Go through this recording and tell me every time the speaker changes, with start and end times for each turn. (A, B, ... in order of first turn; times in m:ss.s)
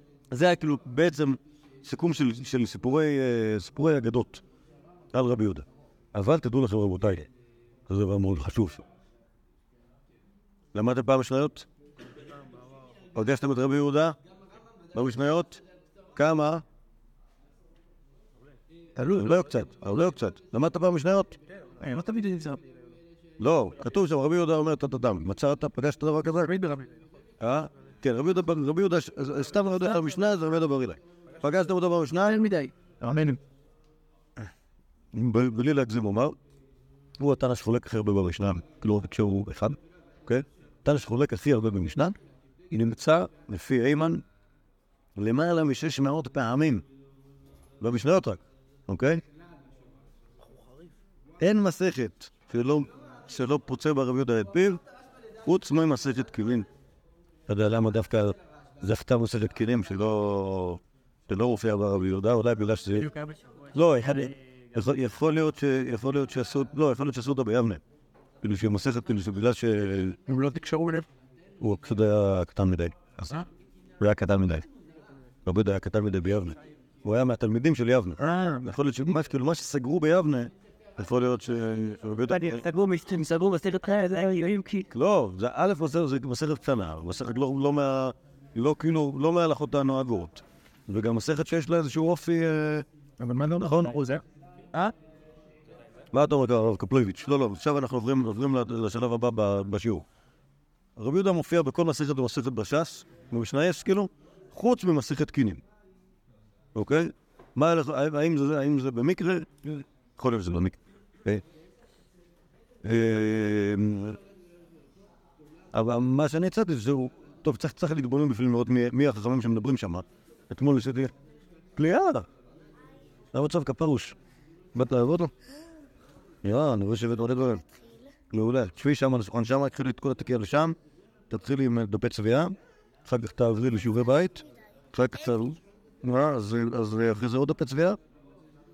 0:00.3-0:04.4 A
0:05.1-0:07.3 A
0:07.9-0:08.8 A
0:10.7-0:11.7 A
0:13.2-0:14.2 A
0:14.9-0:15.6 A
0:16.2-0:16.6 A
0:19.0-0:19.3 B
0:19.2-0:21.4 A
0:21.8-0:22.6 B
0:23.4-0:26.5 A
0:26.5-0:26.9 B
0:27.4-0:32.4 A
0:32.3-0:33.1 B
0:33.0-0:33.3 A
0:35.1-0:36.4 A
0:37.2-0:42.2 A
0:42.7-0:44.2 A
0:45.2-0:46.8 A
0:47.8-0:49.2 A
0:51.4-0:54.8 A
0:55.4-0:56.7 A
0:57.5-1:03.1 A
1:03.7-1:07.8 A
1:08.4-1:10.2 A
1:10.3-1:11.1 B
1:11.6-1:13.4 A
1:14.0-1:14.6 A
1:15.4-1:22.6 A
1:22.3-1:24.9 C
1:24.9-1:34.0 A
1:33.2-1:34.2 B
1:36.1-1:40.0 A
1:41.0-1:45.6 A
1:46.8-1:51.4 A
1:52.8-1:54.2 A
1:55.7-2:01.1 A
2:01.8-2:02.3 A
2:03.3-2:04.2 A
2:04.8-2:05.3 A
2:06.4-2:07.6 A
2:08.3-2:10.8 A
2:11.3-2:18.0 A